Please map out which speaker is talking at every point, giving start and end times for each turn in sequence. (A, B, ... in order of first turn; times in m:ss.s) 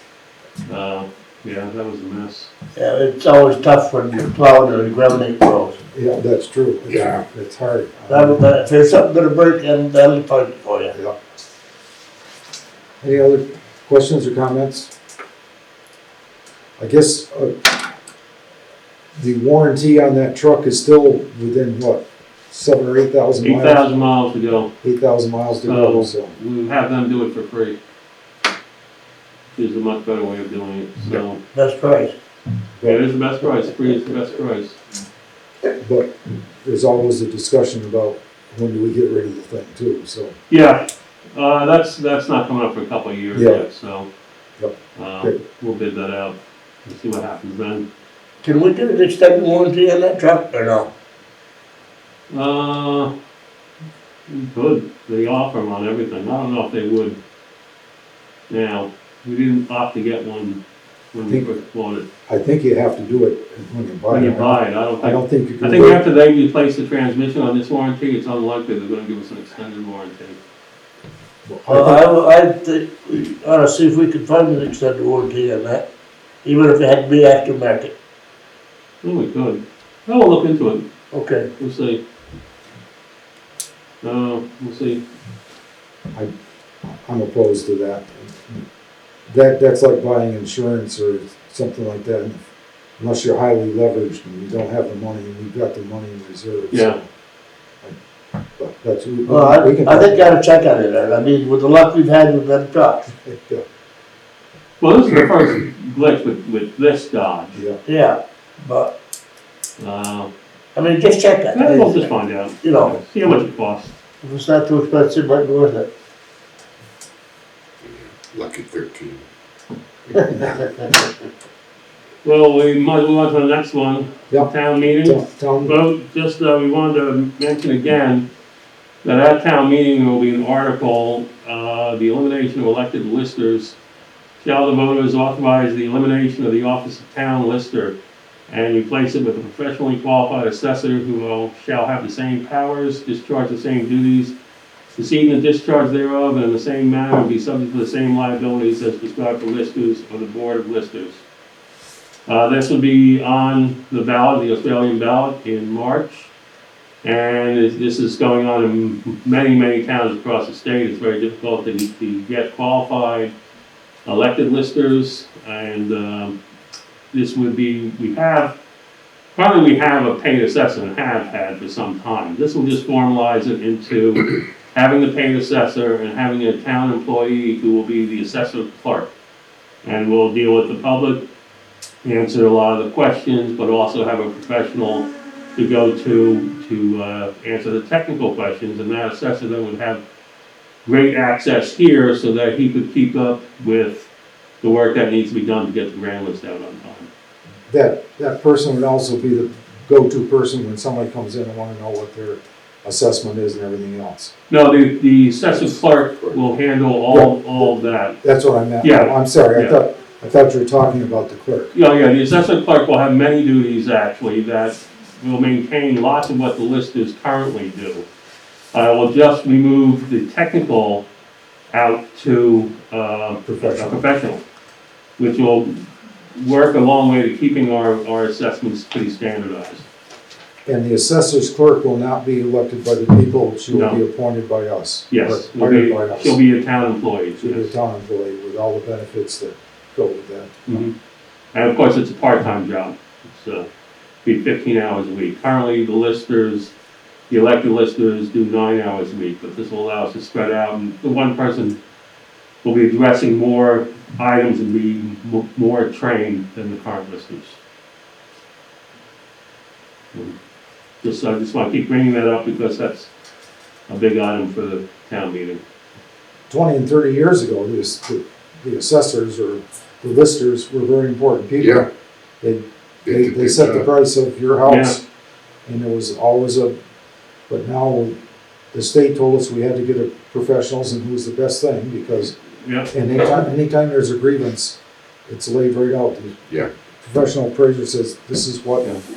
0:00.6-0:02.5 A
0:02.8-0:05.8 B
0:05.9-0:08.4 C
0:06.9-0:07.2 D
0:08.1-0:10.9 B
0:13.0-0:14.9 C
0:16.8-0:17.8 C
0:19.2-0:23.8 C
0:23.4-0:24.7 A
0:24.8-0:26.4 C
0:25.6-0:27.8 A
0:29.5-0:31.4 A
0:31.5-0:32.1 B
0:32.8-0:34.8 A
0:35.7-0:40.3 C
0:40.5-0:44.1 A
0:43.3-0:43.6 C
0:44.6-0:45.4 C
0:44.9-0:47.8 A
0:48.4-0:50.9 B
0:52.3-0:53.1 A
0:54.3-0:57.2 A
0:58.5-1:00.6 A
1:01.1-1:02.0 A
1:02.3-1:06.0 C
1:04.1-1:10.4 A
1:11.5-1:12.0 C
1:11.7-1:15.8 B
1:16.4-1:17.9 B
1:19.0-1:20.8 A
1:21.1-1:21.5 B
1:21.6-1:22.0 A
1:24.0-1:25.0 A
1:26.8-1:28.6 C
1:29.3-1:32.4 C
1:33.0-1:37.1 C
1:36.7-1:37.0 A
1:38.6-1:40.3 C
1:39.3-1:43.0 B
1:43.1-1:43.6 C
1:44.8-1:47.6 A
1:47.8-1:48.9 B
1:49.8-1:50.3 A
1:50.7-1:52.1 B
1:51.5-1:53.9 A
1:52.6-1:53.0 B
1:54.2-1:55.9 B
1:57.8-1:59.2 D
2:00.1-2:01.3 B
2:02.2-2:08.2 A
2:05.0-2:05.8 C
2:09.0-2:13.8 A
2:14.4-2:17.9 A
2:18.5-2:24.3 A
2:25.0-2:31.2 A
2:32.3-2:36.3 A
2:37.0-2:43.3 A
2:44.0-2:46.4 A
2:47.1-2:48.5 A
2:49.3-2:59.1 A
2:59.8-3:01.2 A
3:02.0-3:10.0 A
3:10.8-3:14.1 A
3:14.6-3:17.1 A
3:17.7-3:24.3 C
3:24.5-3:28.2 A
3:27.1-3:31.7 C
3:28.8-3:29.8 A
3:31.7-3:38.0 A
3:38.7-3:41.0 A
3:41.7-3:44.4 A
3:43.4-3:44.0 C
3:45.2-3:49.8 A
3:50.6-3:56.4 C
3:53.7-3:54.0 A
3:55.1-3:57.7 A
3:57.4-4:00.8 C
4:00.6-4:00.9 A
4:01.5-4:03.7 A
4:04.2-4:06.7 A
4:07.3-4:11.8 A
4:12.6-4:17.6 A
4:21.0-4:23.1 A
4:23.9-4:25.6 A
4:26.5-4:31.8 C
4:31.6-4:31.8 D
4:32.4-4:35.0 C
4:33.0-4:33.8 D
4:34.6-4:35.0 A
4:35.6-4:36.7 C
4:37.5-4:38.2 C
4:38.7-4:42.4 C
4:42.6-4:42.9 A
4:42.9-4:46.4 C
4:47.0-4:48.9 C